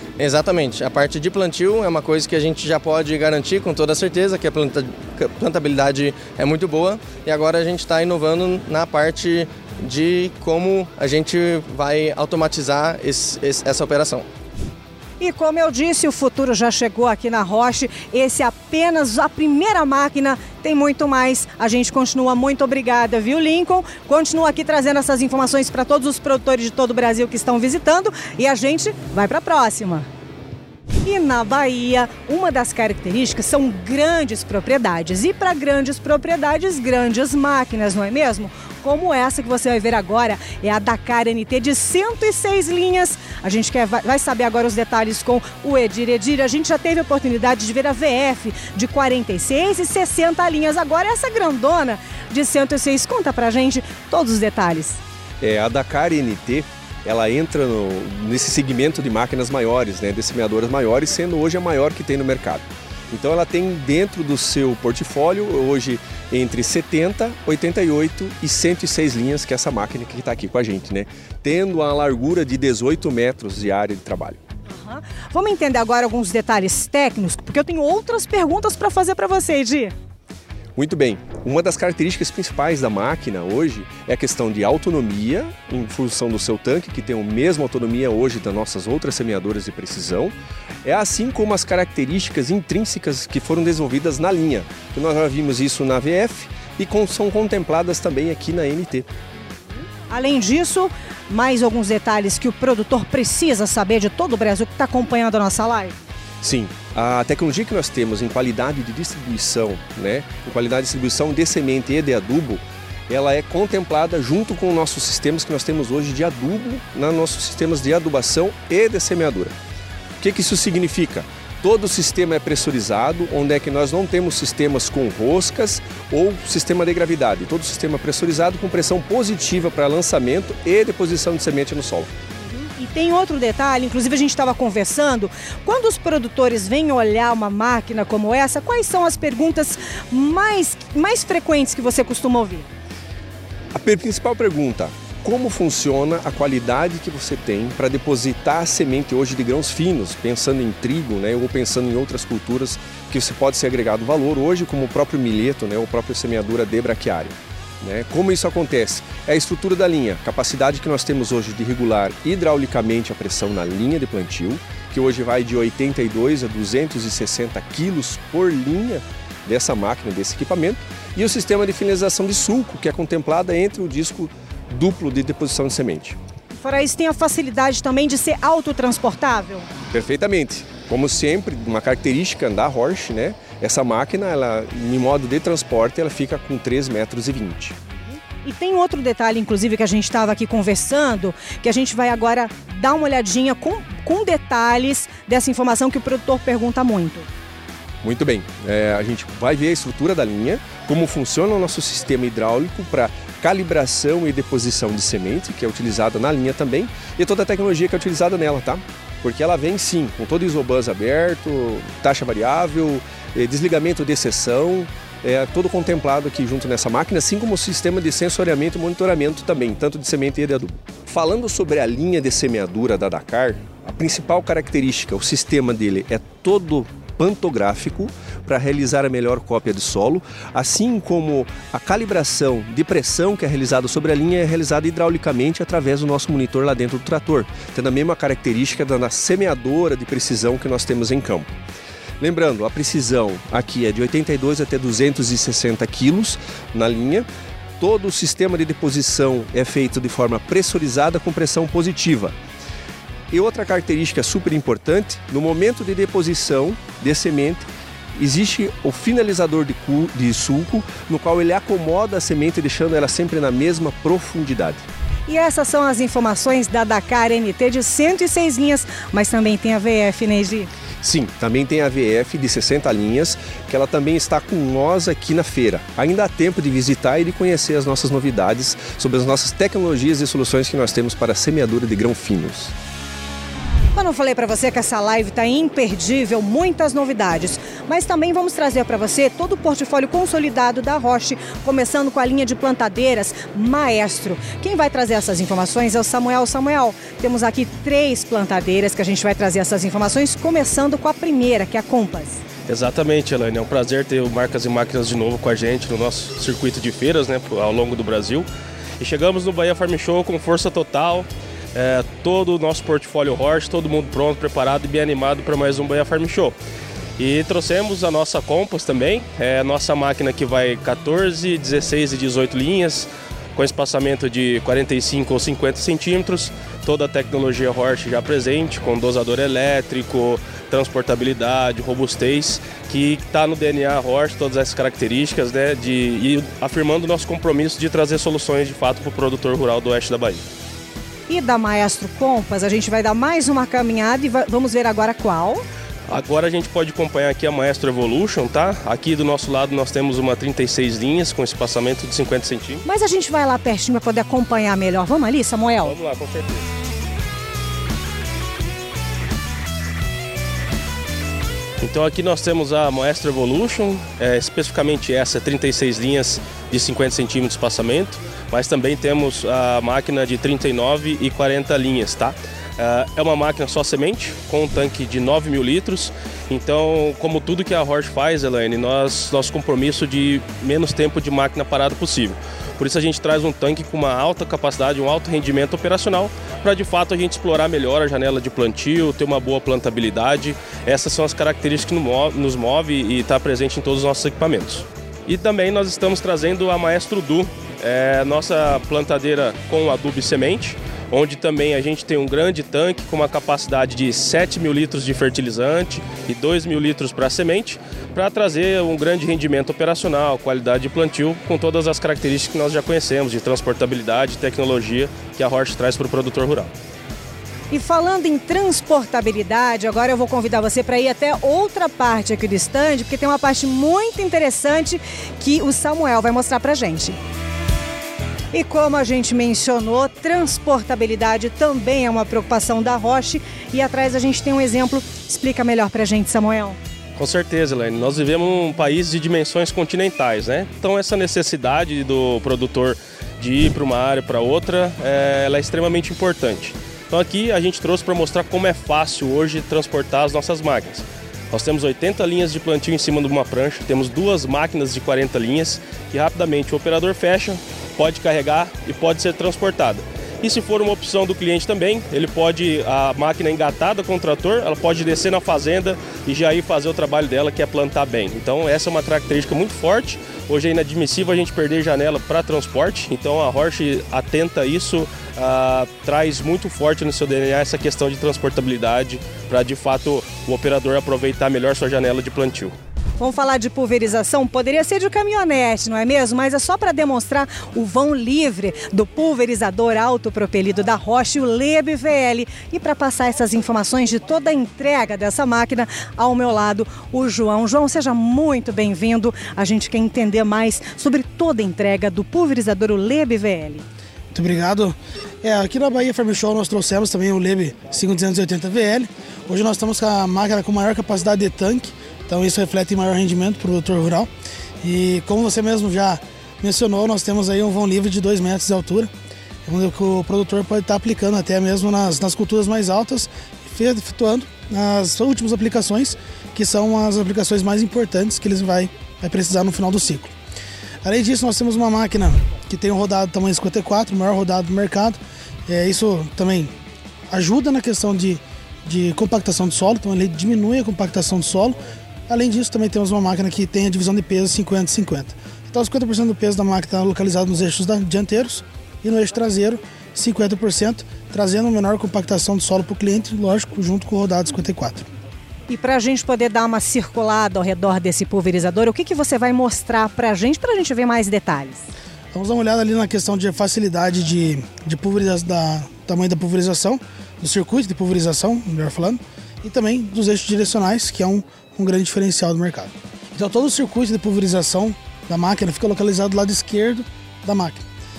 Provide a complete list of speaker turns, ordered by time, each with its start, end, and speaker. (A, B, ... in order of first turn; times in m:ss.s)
0:00.2-0:14.2 A
0:15.2-0:30.1 B
0:31.0-0:55.0 B
0:55.4-1:14.4 C
1:14.7-1:19.9 B
1:20.8-1:39.1 C
1:40.1-1:46.0 B
1:46.4-1:59.6 C
2:00.2-2:12.1 C
2:12.4-2:22.7 B
2:23.7-2:56.2 C
2:56.5-2:59.7 B
2:59.9-3:07.8 C
3:08.4-3:17.3 B
3:18.0-4:01.6 C
4:02.2-4:07.3 C
4:07.8-4:12.3 C
4:13.3-4:24.8 C
4:25.3-4:30.7 B
4:31.0-4:42.7 C
4:43.9-5:02.4 B
5:02.7-5:08.5 D
5:09.0-5:16.6 D
5:17.2-5:40.4 D
5:41.3-5:45.6 B
5:46.1-5:52.8 D
5:52.8-5:55.9 B
5:55.8-5:56.7 D
6:01.8-6:56.7 D
6:57.7-7:07.2 B
7:08.5-7:16.8 B
7:17.2-8:02.7 D
8:03.2-8:23.8 B
8:24.3-8:34.3 E
8:34.8-8:39.1 E
8:39.6-8:50.3 E
8:51.0-8:56.7 E
8:57.3-9:01.8 E
9:02.3-9:15.0 E
9:15.7-9:21.9 B
9:22.3-9:37.8 E